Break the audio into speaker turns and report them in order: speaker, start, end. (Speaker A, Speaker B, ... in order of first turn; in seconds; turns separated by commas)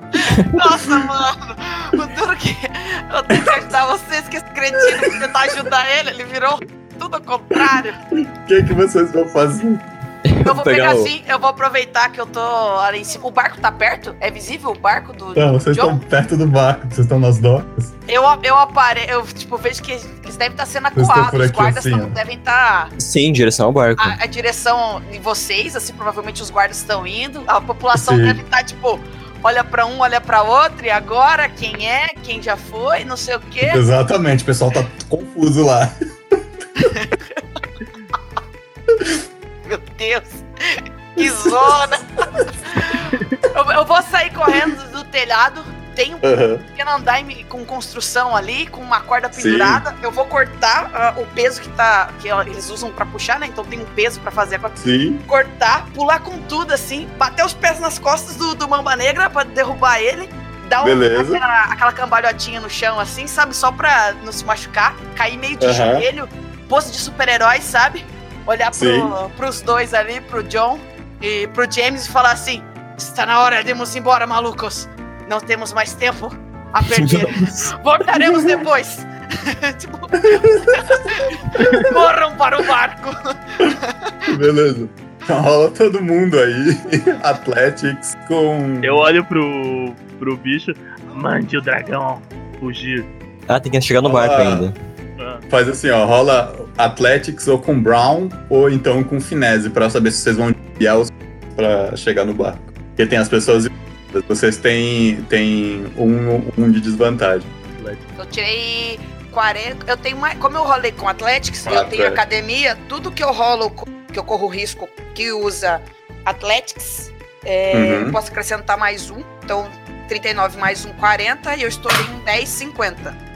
Speaker A: 0.2-8.0, Speaker B: 3.3-3.6, Speaker B: 4.9-5.2, Speaker B: 7.5-9.8, Speaker C: 10.2-11.1, Speaker A: 10.4-16.0, Speaker B: 15.3-17.9, Speaker A: 18.1-22.9, Speaker B: 20.9-22.2, Speaker C: 23.0-24.2, Speaker A: 24.0-33.8, Speaker B: 27.9-28.4, Speaker B: 33.6-35.9, Speaker A: 36.8-37.4, Speaker A: 39.6-84.2, Speaker B: 41.2-41.5, Speaker B: 46.2-46.6, Speaker B: 49.3-49.8, Speaker B: 54.8-55.2, Speaker B: 60.8-61.4, Speaker B: 65.6-66.1, Speaker B: 68.7-69.1, Speaker B: 76.9-78.7, Speaker B: 80.2-81.9, Speaker B: 84.3-89.0, Speaker D: 88.8-93.1, Speaker C: 93.5-94.7, Speaker B: 94.0-94.7, Speaker D: 95.2-95.5, Speaker B: 95.5-107.5, Speaker D: 107.7-108.0, Speaker A: 108.2-123.2, Speaker B: 111.6-112.2, Speaker B: 117.7-118.2